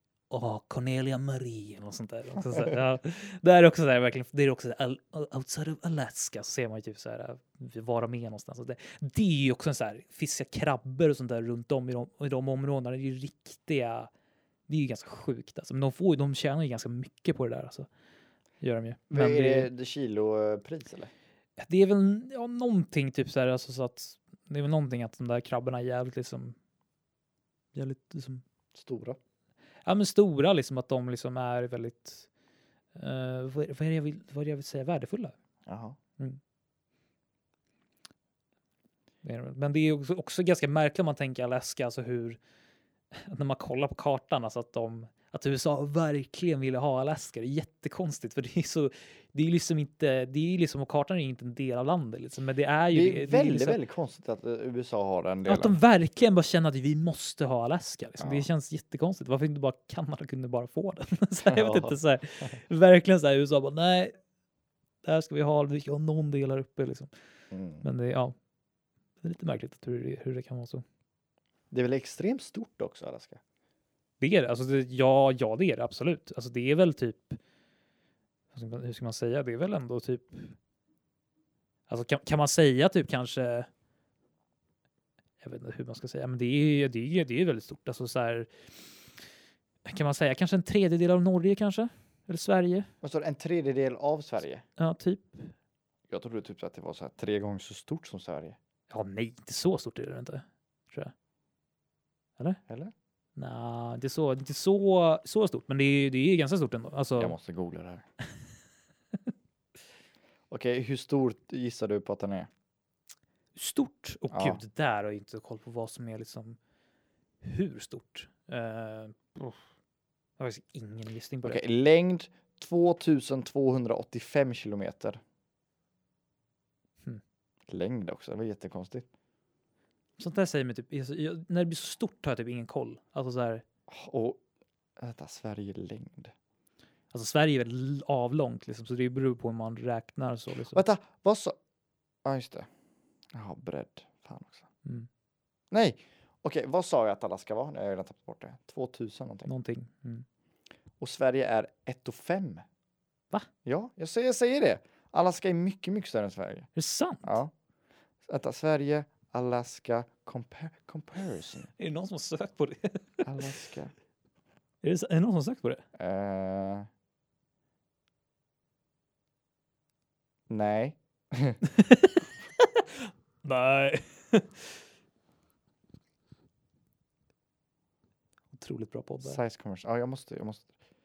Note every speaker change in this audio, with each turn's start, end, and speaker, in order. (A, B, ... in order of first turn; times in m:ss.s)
0:00.3-0:14.1 A
0:14.7-0:17.9 A
0:18.6-0:19.7 A
0:19.1-0:21.1 B
0:21.6-0:26.6 A
0:27.8-0:28.4 A
0:28.7-0:29.2 B
0:29.8-0:32.3 A
0:33.0-0:35.3 A
0:35.7-0:36.0 B
0:39.2-0:42.4 A
0:43.1-0:53.8 A
0:52.9-0:55.8 B
0:55.5-1:04.1 A
0:58.2-0:58.5 B
1:01.5-1:02.0 B
1:05.0-1:07.1 A
1:07.5-1:07.9 B
1:07.8-1:08.4 A
1:09.2-1:10.8 A
1:11.7-1:13.4 B
1:14.2-1:17.4 A
1:18.5-1:20.6 A
1:21.9-1:23.7 A
1:25.4-1:28.5 A
1:29.8-1:32.9 A
1:33.0-1:34.6 B
1:34.8-1:35.5 A
1:36.1-1:38.6 B
1:38.9-1:41.1 A
1:42.7-1:42.9 B
1:43.4-1:47.4 A
1:47.2-1:48.0 B
1:50.5-1:52.5 B
1:53.6-1:56.6 A
1:54.3-1:54.6 B
1:57.4-1:59.6 A
2:00.4-2:01.6 A
2:01.4-2:05.2 B
2:07.7-2:09.1 B
2:10.2-2:13.6 A
2:13.9-2:14.4 B
2:15.0-2:16.3 B
2:17.1-2:20.8 A
2:20.7-2:21.6 B
2:22.2-2:22.7 B
2:23.3-2:24.7 B
2:25.7-2:29.5 B
2:29.5-2:30.2 A
2:31.0-2:32.6 B
2:33.6-2:36.7 B
2:36.8-2:37.4 A
2:37.2-2:37.5 B
2:38.3-2:41.7 B
2:41.8-2:43.2 A
2:43.2-2:43.9 B
2:44.8-2:45.8 A
2:46.0-2:46.9 B
2:50.5-2:51.6 B
2:51.7-2:54.7 A
2:58.5-2:59.4 A
2:59.2-3:00.7 B